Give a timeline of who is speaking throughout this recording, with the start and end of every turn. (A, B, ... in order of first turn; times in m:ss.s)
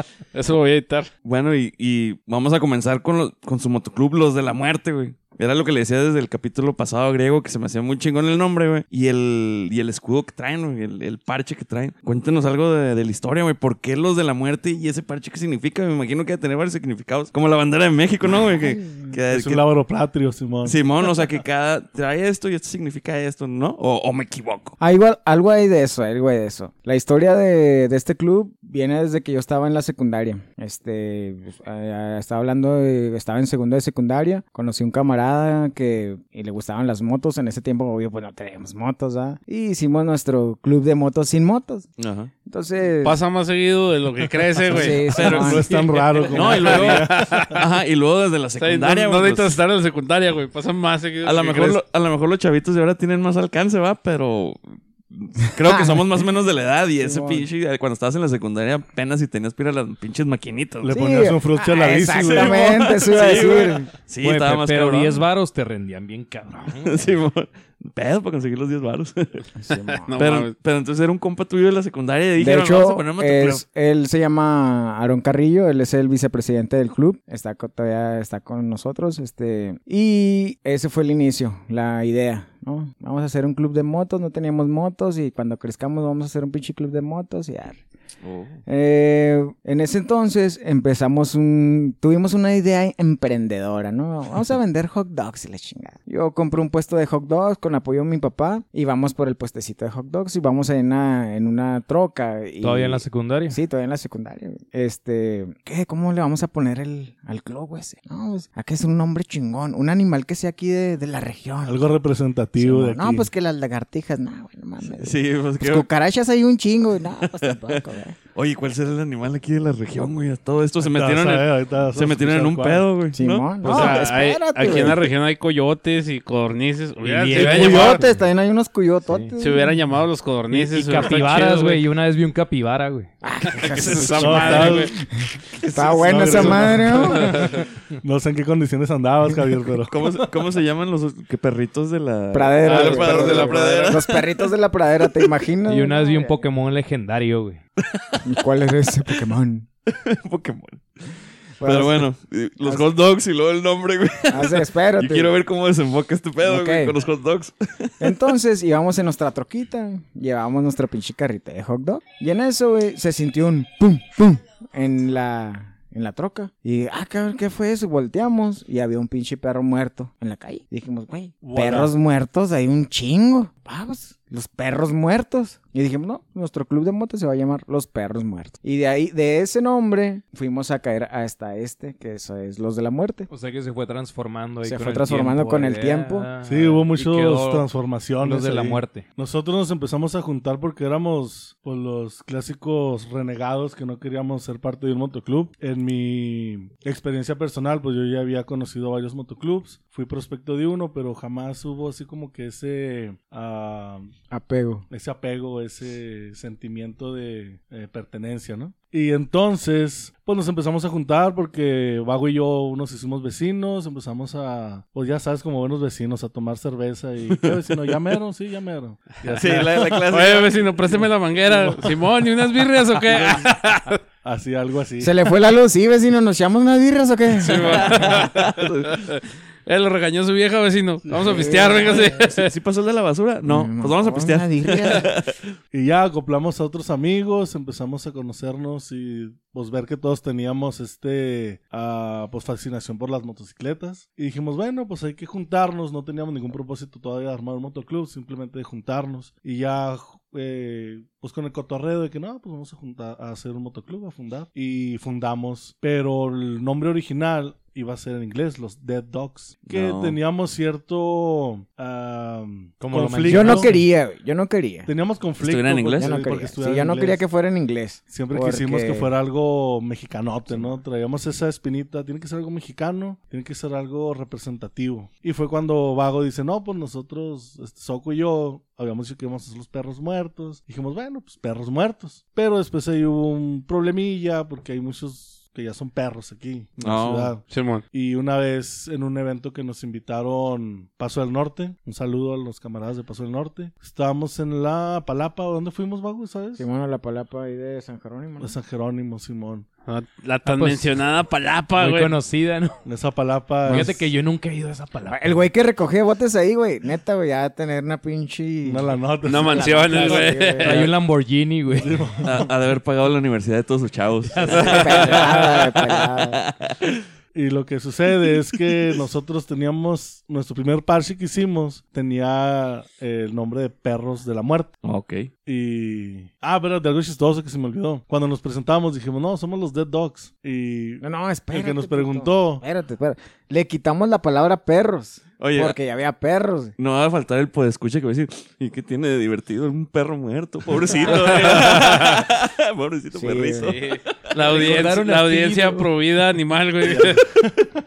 0:00.3-0:01.1 A
0:01.2-0:19.7 B
0:18.6-0:19.2 C
0:19.3-0:20.8 D
0:20.6-0:24.8 B
0:24.8-0:41.9 C
0:42.0-0:42.3 B
0:42.5-0:43.2 C
0:43.0-0:47.6 A
0:44.7-0:45.7 C
0:44.7-0:45.6 B
0:44.9-0:47.5 D
0:46.3-0:49.6 B
0:48.6-0:51.8 A
0:51.2-1:01.0 B
0:55.6-0:56.3 C
0:57.0-0:57.5 C
1:00.8-1:02.9 D
1:00.9-1:03.9 C
1:02.0-1:05.3 B
1:04.2-1:07.2 E
1:06.7-1:09.4 B
1:09.6-1:10.2 C
1:09.7-1:10.5 A
1:10.2-1:13.6 B
1:12.4-1:27.8 C
1:28.2-1:28.6 B
1:28.7-1:51.9 C
1:42.6-1:43.6 E
1:51.6-1:53.3 D
1:52.6-1:58.2 C
1:54.9-1:55.9 B
1:57.2-1:57.8 B
1:58.4-2:03.5 B
2:00.8-2:02.9 D
2:03.1-2:05.1 C
2:03.6-2:04.0 E
2:03.6-2:08.0 A
2:07.0-2:08.2 E
2:07.4-2:09.8 C
2:07.5-2:08.0 D
2:09.1-2:09.3 E
2:09.4-2:11.8 A
2:10.5-2:13.1 E
2:13.2-2:17.6 C
2:13.5-2:14.9 A
2:14.2-2:14.9 D
2:15.6-2:17.4 B
2:16.0-2:17.4 D
2:18.0-2:20.0 D
2:19.9-2:24.5 B
2:22.3-2:26.4 C
2:22.6-2:23.9 A
2:25.7-2:27.6 E
2:27.8-2:28.3 B
2:28.2-2:29.7 C
2:29.9-2:31.1 B
2:31.6-2:32.1 C
2:31.6-2:38.1 B
2:32.6-2:32.9 C
2:34.3-2:35.3 C
2:36.4-2:37.0 C
2:38.0-3:03.3 C
2:51.4-2:51.9 D
3:03.3-3:07.7 E
3:04.6-3:06.3 C
3:06.4-3:24.1 D
3:08.2-3:09.0 E
3:24.3-3:24.9 C
3:24.9-3:40.1 D
3:37.3-3:38.2 B
3:39.2-3:41.0 B
3:40.1-3:44.0 A
3:41.5-3:41.9 D
3:44.2-3:45.1 D
3:45.0-3:48.2 C
3:47.4-3:52.5 A
3:47.6-3:49.1 B
3:51.1-3:51.4 D
3:51.2-3:52.2 C
3:51.7-3:55.4 B
3:53.4-3:55.1 C
3:55.7-4:23.7 D
4:19.7-4:20.2 B
4:22.8-4:23.8 E
4:23.3-4:24.9 C
4:24.9-4:27.2 D
4:25.4-4:26.1 B
4:26.0-4:29.1 C
4:28.1-4:56.6 D
4:46.8-4:47.3 B
4:47.5-4:47.8 A
4:56.6-4:58.6 C
4:58.4-4:59.7 D
4:59.9-5:02.1 A
5:00.4-5:01.0 E
5:01.8-5:02.8 E
5:02.8-5:04.0 D
5:03.7-5:05.4 E
5:05.1-5:10.9 C
5:08.6-5:10.3 D
5:09.2-5:10.9 A
5:10.6-5:12.1 E
5:11.8-5:12.5 D
5:12.2-5:17.0 B
5:14.3-5:15.2 E
5:14.4-5:16.4 C
5:14.6-5:15.3 A
5:17.3-5:24.8 D
5:18.3-5:19.0 B
5:24.8-5:25.3 B
5:25.4-5:32.6 D
5:31.0-5:36.8 C
5:35.4-5:35.8 B
5:36.8-5:44.6 B
5:40.9-5:41.6 C
5:41.1-5:42.2 A
5:43.1-5:43.8 C
5:43.7-5:47.2 A
5:44.4-5:45.9 E
5:46.8-5:47.5 B
5:47.4-5:47.6 D